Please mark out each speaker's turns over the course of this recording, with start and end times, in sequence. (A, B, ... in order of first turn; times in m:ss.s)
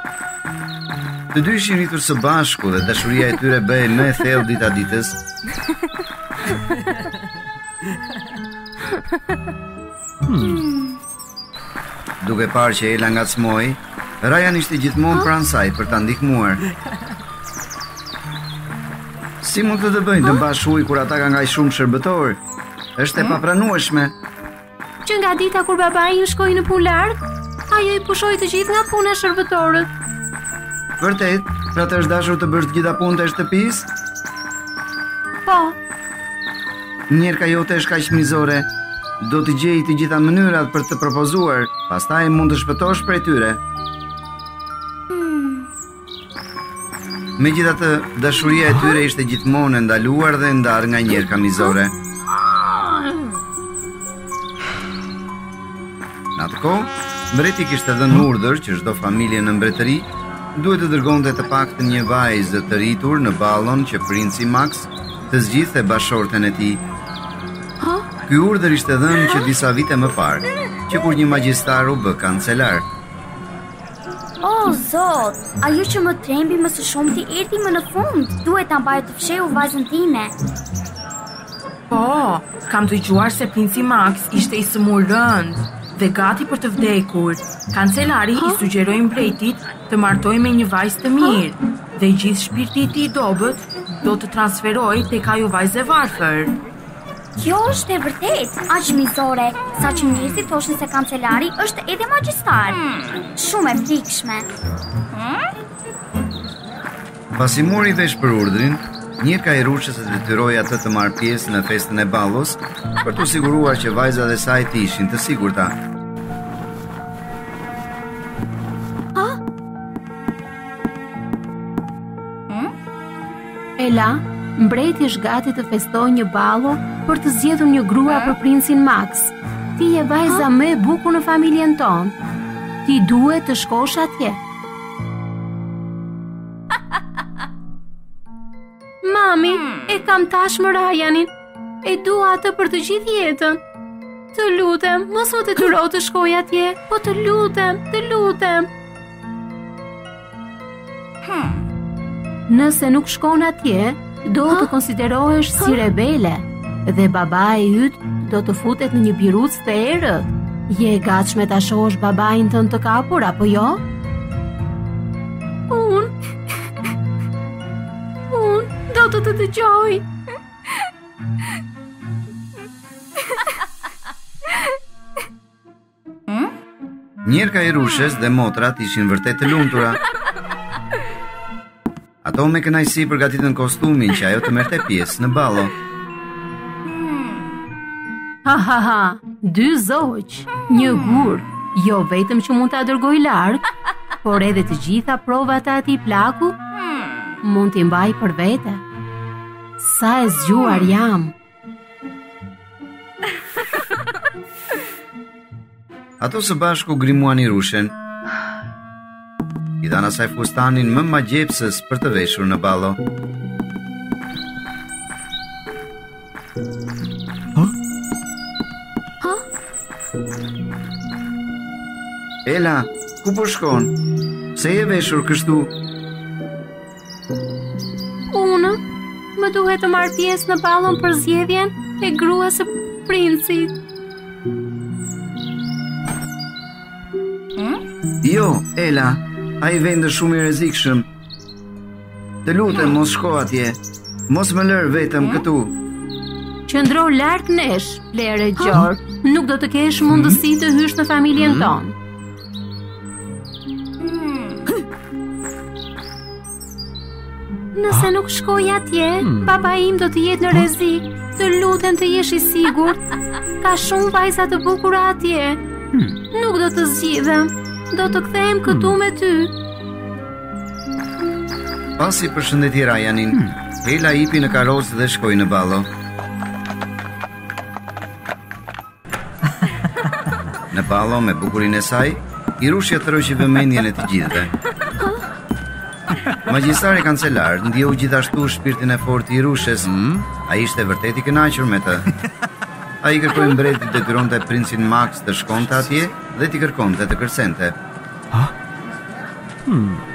0:01.3-0:05.2 A
0:12.2-0:16.6 A
0:19.4-0:22.4 A
0:23.0-0:24.1 A
0:25.0-0:27.2 B
0:27.7-0:29.9 B
0:31.0-0:33.9 A
0:35.4-0:35.8 B
0:37.1-0:38.7 A
0:39.2-0:43.6 A
0:47.4-0:52.0 A
0:56.4-1:06.8 A
1:08.3-1:12.8 A
1:14.4-1:20.4 C
1:21.9-1:36.6 D
1:37.4-1:44.5 C
1:47.4-1:55.8 A
2:03.8-2:12.1 B
2:12.8-2:14.4 B
2:19.0-2:21.3 B
2:21.8-2:23.6 B
2:24.3-2:28.7 B
2:32.5-2:43.8 B
2:45.7-2:46.1 B
2:48.2-2:50.0 B
2:57.2-3:00.0 A
3:02.2-3:05.8 A
3:08.4-3:13.6 B
3:14.2-3:16.6 B
3:17.4-3:18.8 B
3:19.8-3:21.3 B
3:26.2-3:28.0 A
3:29.8-3:33.0 A
3:42.4-3:44.0 A
3:44.6-3:45.7 A
3:48.3-3:48.8 B
3:49.4-3:53.7 B
3:58.2-4:01.1 A
4:02.4-4:05.8 A
4:06.7-4:12.0 B
4:17.8-4:23.0 B
4:23.6-4:25.6 B
4:26.3-4:29.5 B
4:32.0-4:35.9 A
4:40.7-4:44.5 A
4:46.4-4:52.1 A
4:53.0-4:57.8 A